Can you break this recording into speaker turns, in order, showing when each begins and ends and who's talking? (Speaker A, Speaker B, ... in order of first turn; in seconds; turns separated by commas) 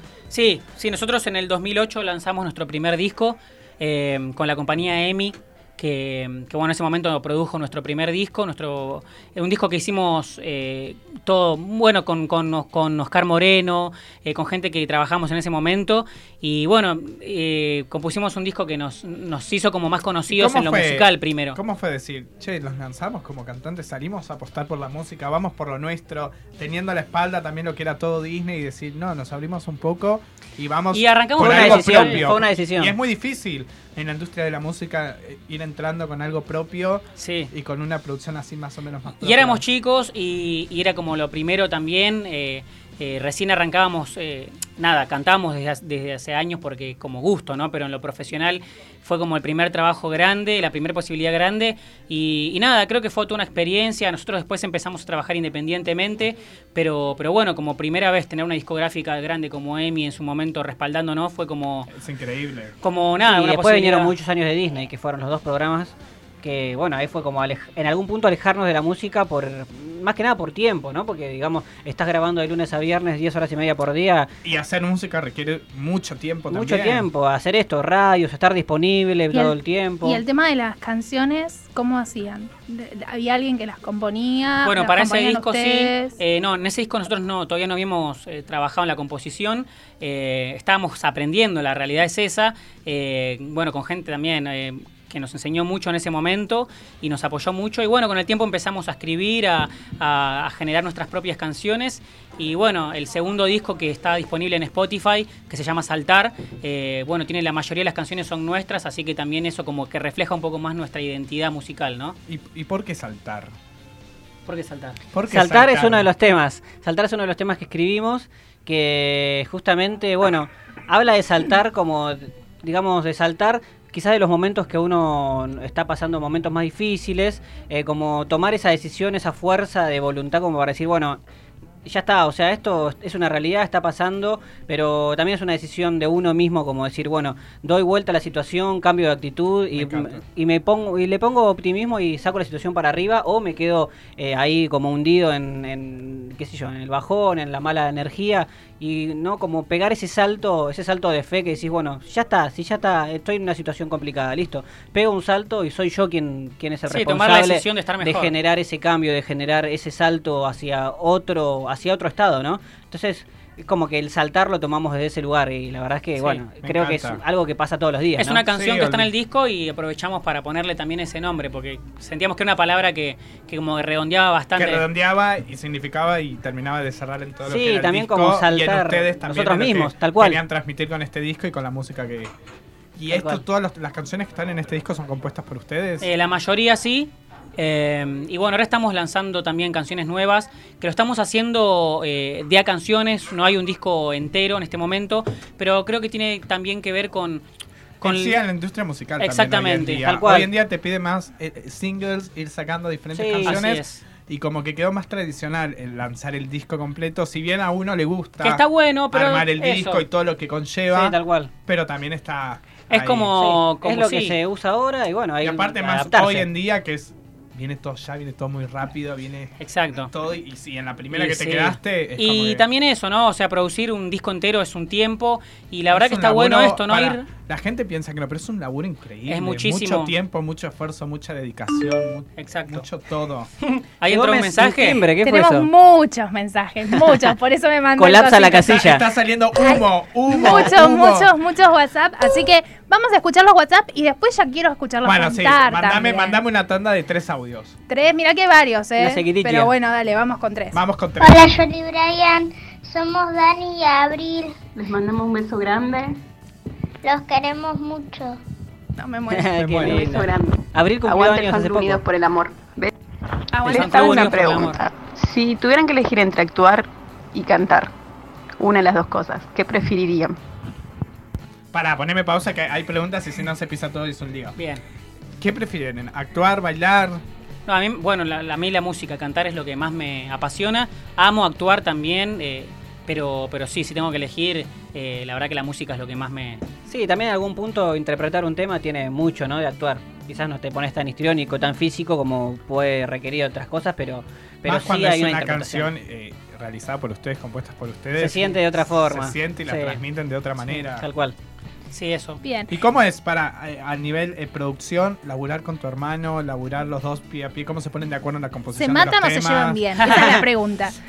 Speaker A: 0.3-21.6, Speaker B: 20.3-39.6, Speaker A: 30.9-32.3, Speaker C: 31.4-33.0, Speaker A: 37.2-37.5, Speaker A: 39.1-61.9, Speaker B: 61.9-62.8, Speaker A: 62.8-64.1, Speaker C: 63.2-74.3, Speaker B: 74.4-77.1, Speaker C: 76.5-80.2, Speaker D: 79.3-86.1, Speaker A: 84.6-112.2, Speaker B: 112.3-113.5, Speaker A: 114.5-115.0, Speaker B: 115.1-116.1, Speaker C: 115.3-131.2, Speaker C: 131.8-168.4, Speaker B: 139.8-140.2, Speaker A: 156.9-158.3, Speaker A: 166.2-166.4, Speaker B: 166.6-167.2, Speaker A: 168.2-174.8, Speaker B: 168.4-169.1, Speaker B: 174.6-182.3, Speaker C: 177.4-180.4, Speaker B: 182.9-186.1, Speaker C: 183.1-183.4, Speaker A: 186.0-197.4, Speaker A: 198.0-198.4, Speaker B: 198.0-213.3, Speaker A: 199.2-200.1, Speaker C: 200.0-200.5, Speaker C: 203.1-203.6, Speaker A: 203.3-204.0, Speaker A: 208.4-210.0, Speaker C: 210.9-211.5, Speaker A: 212.9-214.4, Speaker C: 213.4-216.5, Speaker B: 215.4-219.5, Speaker A: 219.6-220.1, Speaker B: 220.0-222.7, Speaker A: 221.1-227.2, Speaker B: 225.9-233.5, Speaker A: 229.3-230.1, Speaker A: 232.4-232.8, Speaker C: 233.6-235.7, Speaker A: 234.0-235.1, Speaker D: 235.2-238.7, Speaker C: 236.9-237.3, Speaker C: 237.9-239.0, Speaker B: 238.5-241.3, Speaker D: 239.6-246.4, Speaker B: 245.0-247.8, Speaker D: 247.9-250.8, Speaker C: 249.0-249.7, Speaker B: 250.7-251.5, Speaker E: 251.2-254.6, Speaker F: 254.7-256.2, Speaker E: 257.0-258.4, Speaker D: 259.0-259.5, Speaker C: 259.3-262.0, Speaker B: 259.6-260.1, Speaker F: 259.8-262.9, Speaker D: 263.5-264.4, Speaker F: 263.6-267.9, Speaker A: 263.6-264.8, Speaker F: 268.6-270.4, Speaker B: 271.7-274.6, Speaker A: 274.6-274.8, Speaker B: 275.4-277.2, Speaker A: 277.7-286.6, Speaker C: 286.9-295.9, Speaker B: 294.6-301.1, Speaker C: 298.2-300.0, Speaker C: 300.6-301.3, Speaker A: 301.9-302.4, Speaker D: 302.4-302.7, Speaker B: 302.7-310.1, Speaker D: 308.8-310.9, Speaker A: 310.0-310.4